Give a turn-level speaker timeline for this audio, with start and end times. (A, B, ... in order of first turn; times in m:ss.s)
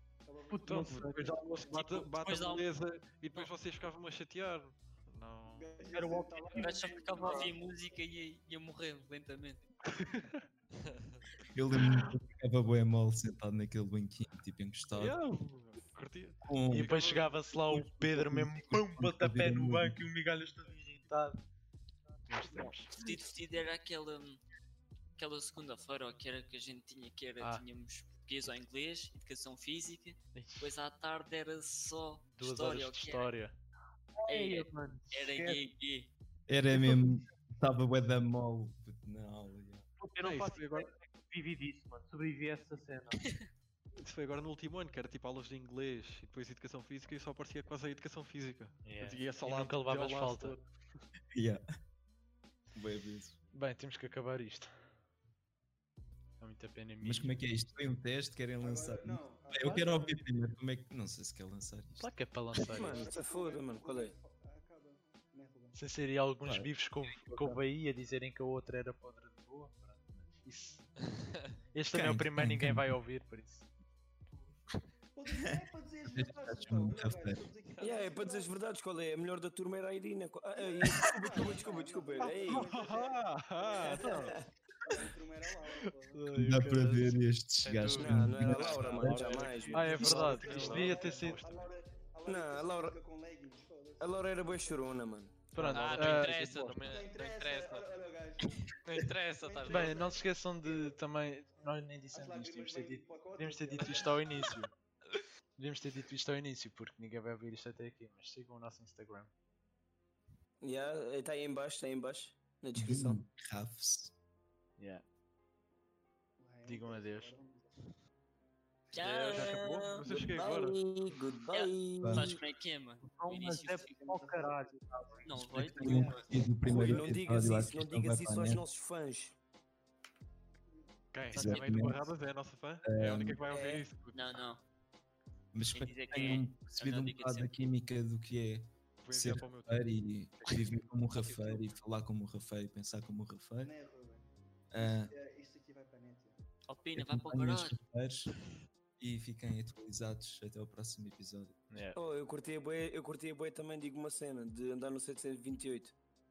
0:00.2-0:02.1 A
0:00.5-0:01.9 B
0:00.6-0:05.8 C
0:02.1-0:02.7 D
0:05.4-0:07.6 A
0:05.9-0:07.5 B
0:06.6-0:09.6 D
0:09.8-0:10.4 C
0:11.5-0:15.2 E
0:11.8-0:12.1 C
0:14.9-0:17.5 C
0:16.4-0:16.9 E
0:16.7-0:21.4 F
0:17.7-0:20.0 E
0:22.3-0:22.9 F
0:22.8-0:24.4 D
0:25.2-0:33.3 D
0:30.3-0:30.7 F
0:32.4-0:33.6 F
0:34.2-0:35.1 B
0:34.2-0:36.1 D
0:35.3-0:35.6 F
0:36.5-0:39.8 E
0:36.7-0:37.1 B
0:40.0-0:43.2 B
0:40.2-0:40.9 C
0:44.0-0:50.6 C
0:48.8-0:50.6 F
0:51.3-0:51.6 E
0:52.7-0:53.4 E
0:53.5-0:54.7 F
0:56.4-0:57.4 F
0:57.0-1:02.1 E
0:58.6-1:00.2 A
1:02.0-1:03.0 F
1:02.6-1:04.1 G
1:02.7-1:05.8 A
1:05.7-1:10.9 F
1:06.4-1:07.6 E
1:11.7-1:13.7 F
1:11.9-1:12.9 E
1:15.1-1:18.6 A
1:16.1-1:17.4 E
1:17.8-1:22.7 G
1:20.5-1:26.3 A
1:22.5-1:24.3 C
1:23.8-1:24.5 G
1:26.1-1:27.2 F
1:26.3-1:29.6 E
1:27.6-1:31.6 C
1:27.9-1:31.0 G
1:29.7-1:31.4 F
1:29.7-1:30.4 B
1:30.0-1:34.2 A
1:32.2-1:33.0 G
1:34.0-1:35.5 G
1:35.5-1:36.8 F
1:35.6-1:37.9 H
1:36.0-1:36.2 C
1:36.8-1:38.7 A
1:38.8-1:40.0 H
1:39.4-1:41.0 A
1:39.7-1:44.7 F
1:41.6-1:44.5 A
1:45.6-1:49.3 F
1:50.6-1:53.2 G
1:52.8-1:54.1 E
1:54.8-1:55.0 F
1:56.4-1:57.9 A
1:56.6-1:57.3 F
1:58.9-2:00.0 D
1:58.9-2:00.8 C
2:00.0-2:02.4 G
2:01.5-2:04.0 D
2:02.0-2:02.3 E
2:03.0-2:05.2 B
2:03.9-2:06.4 A
2:05.2-2:06.3 D
2:05.3-2:08.6 E
2:06.6-2:09.4 G
2:10.7-2:11.0 A
2:11.1-2:14.4 C
2:11.3-2:11.9 D
2:11.3-2:12.1 E
2:12.8-2:13.4 E
2:13.5-2:13.8 G
2:14.1-2:14.6 D
2:15.5-2:23.7 E
2:15.7-2:17.5 D
2:19.0-2:20.7 C
2:21.3-2:21.6 D
2:23.6-2:26.4 A
2:24.7-2:25.1 E
2:26.7-2:27.8 D
2:26.9-2:28.3 E
2:29.0-2:31.6 E
2:31.7-2:32.0 F
2:31.9-2:35.9 G